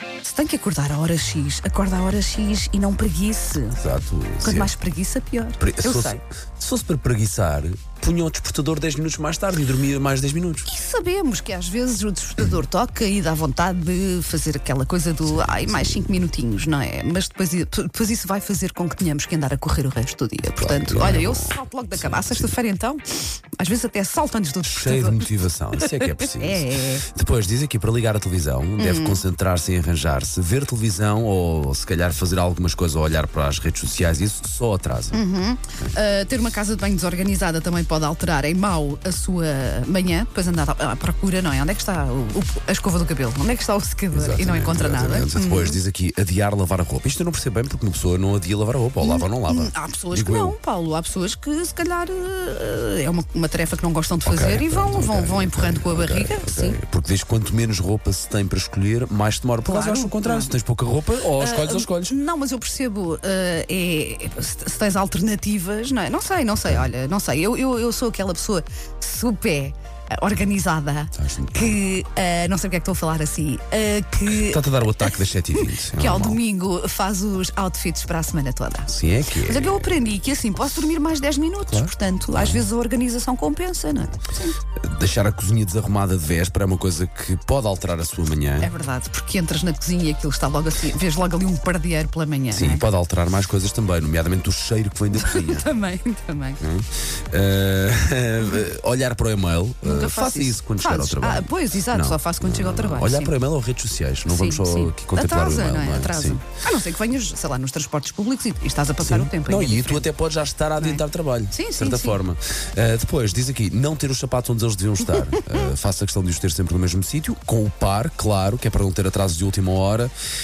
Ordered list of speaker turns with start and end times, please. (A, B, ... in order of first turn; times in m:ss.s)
0:00.2-0:03.8 A
0:03.8-0:04.7 B
0:04.4-0:06.2 A
0:05.6-0:10.7 B
0:10.7-0:27.1 A
0:15.2-0:16.2 B
0:20.6-0:22.5 B
0:24.6-0:35.2 B
0:28.8-0:29.2 A
0:35.1-0:45.8 A
0:44.1-0:50.6 B
0:49.0-0:56.8 A
0:54.2-1:02.2 B
0:59.7-1:00.5 A
1:01.4-1:24.6 A
1:06.5-1:06.9 B
1:11.2-1:11.8 B
1:14.3-1:16.4 B
1:18.9-1:19.9 B
1:21.7-1:22.7 B
1:24.8-1:28.7 B
1:28.6-1:32.8 A
1:32.5-1:35.7 B
1:35.1-1:36.6 A
1:36.6-1:46.4 B
1:39.8-1:43.3 A
1:44.3-1:50.1 A
1:49.0-2:00.1 B
1:50.8-1:52.2 A
1:55.2-1:55.7 A